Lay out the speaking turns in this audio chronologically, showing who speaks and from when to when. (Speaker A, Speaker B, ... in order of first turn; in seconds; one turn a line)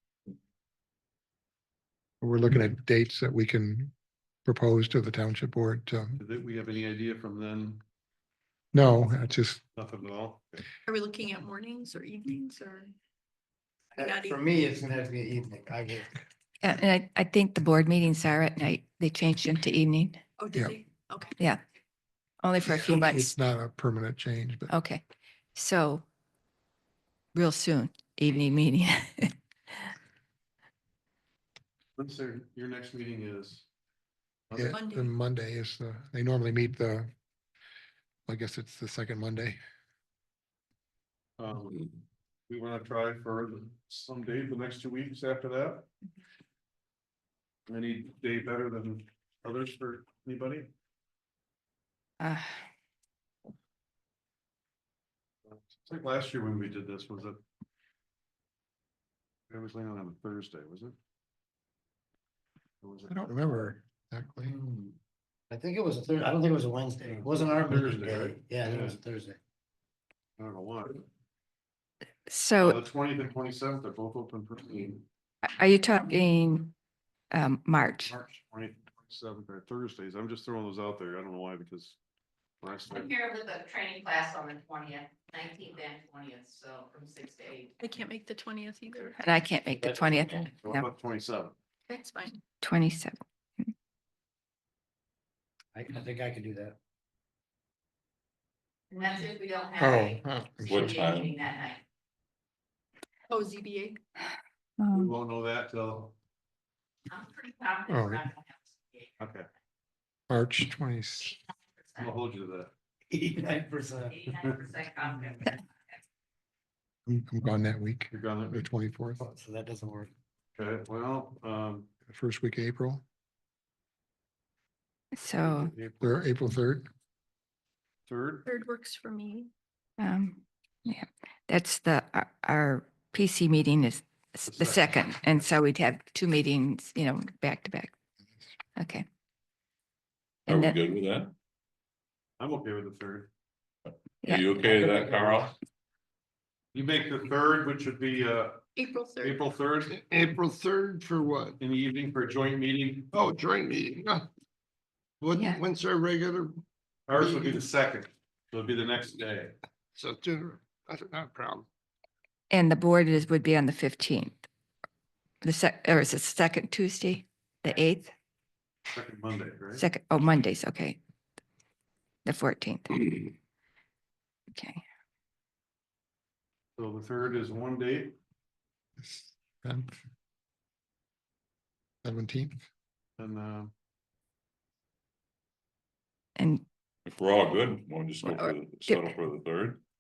Speaker A: 2.2-3.9
Speaker A: 4.5-6.2
Speaker B: 6.2-7.8
Speaker A: 8.7-9.6
Speaker B: 9.8-10.6
Speaker C: 10.9-12.9
Speaker C: 13.9-14.4
Speaker D: 14.0-16.1
Speaker E: 16.6-20.2
Speaker C: 20.4-21.4
Speaker E: 22.4-23.3
Speaker A: 22.6-24.7
Speaker E: 24.7-25.0
Speaker E: 25.5-26.0
Speaker E: 27.3-29.3
Speaker B: 32.0-33.7
Speaker B: 34.5-34.8
Speaker A: 34.5-37.1
Speaker C: 34.7-35.1
Speaker A: 38.3-39.6
Speaker B: 41.4-41.9
Speaker B: 42.5-45.9
Speaker B: 47.7-50.7
Speaker E: 52.2-52.5
Speaker B: 55.5-57.4
Speaker B: 59.5-61.0
Speaker B: 62.8-63.3
Speaker A: 63.1-64.6
Speaker D: 64.5-64.9
Speaker D: 65.5-69.4
Speaker B: 67.1-69.0
Speaker B: 70.4-71.0
Speaker E: 72.3-72.8
Speaker B: 72.6-75.0
Speaker E: 75.5-76.7
Speaker E: 77.3-78.1
Speaker B: 78.0-82.0
Speaker B: 82.6-83.1
Speaker F: 82.9-87.7
Speaker C: 87.8-89.2
Speaker E: 89.2-90.8
Speaker D: 89.7-90.2
Speaker B: 90.6-91.5
Speaker C: 91.9-92.4
Speaker E: 92.6-93.2
Speaker D: 95.7-96.8
Speaker F: 98.9-101.8
Speaker A: 99.8-101.0
Speaker G: 100.7-101.3
Speaker C: 103.3-104.0
Speaker E: 104.8-105.1
Speaker B: 104.9-106.2
Speaker F: 107.1-109.1
Speaker A: 107.9-108.3
Speaker B: 109.2-109.5
Speaker A: 110.3-111.3
Speaker B: 112.0-112.7
Speaker D: 113.1-114.4
Speaker F: 114.1-115.5
Speaker D: 115.1-115.5
Speaker A: 117.1-119.2
Speaker B: 118.1-118.6
Speaker D: 119.2-120.1
Speaker B: 120.6-121.9
Speaker A: 122.1-123.0
Speaker E: 125.1-125.7
Speaker B: 125.4-126.2
Speaker A: 126.0-126.9
Speaker B: 128.1-128.4
Speaker C: 128.4-129.5
Speaker E: 130.0-137.9
Speaker B: 134.5-135.2
Speaker E: 138.8-139.0
Speaker E: 140.5-140.8
Speaker G: 140.5-141.3
Speaker B: 142.4-143.3
Speaker E: 144.2-144.8
Speaker G: 144.2-145.5
Speaker B: 146.7-148.6
Speaker C: 148.8-149.4
Speaker B: 149.2-149.9
Speaker H: 149.9-151.6
Speaker B: 151.6-153.1
Speaker H: 153.1-154.2
Speaker H: 155.2-156.6
Speaker B: 157.1-159.5
Speaker H: 159.9-161.7
Speaker E: 162.5-164.4
Speaker E: 165.4-168.1
Speaker B: 168.9-169.8
Speaker E: 169.8-171.0
Speaker E: 172.2-173.0
Speaker E: 174.5-174.8
Speaker B: 176.8-178.1
Speaker A: 179.0-180.0
Speaker A: 182.0-182.6
Speaker B: 183.2-183.7
Speaker E: 186.4-186.6
Speaker G: 187.1-189.8
Speaker E: 188.2-189.1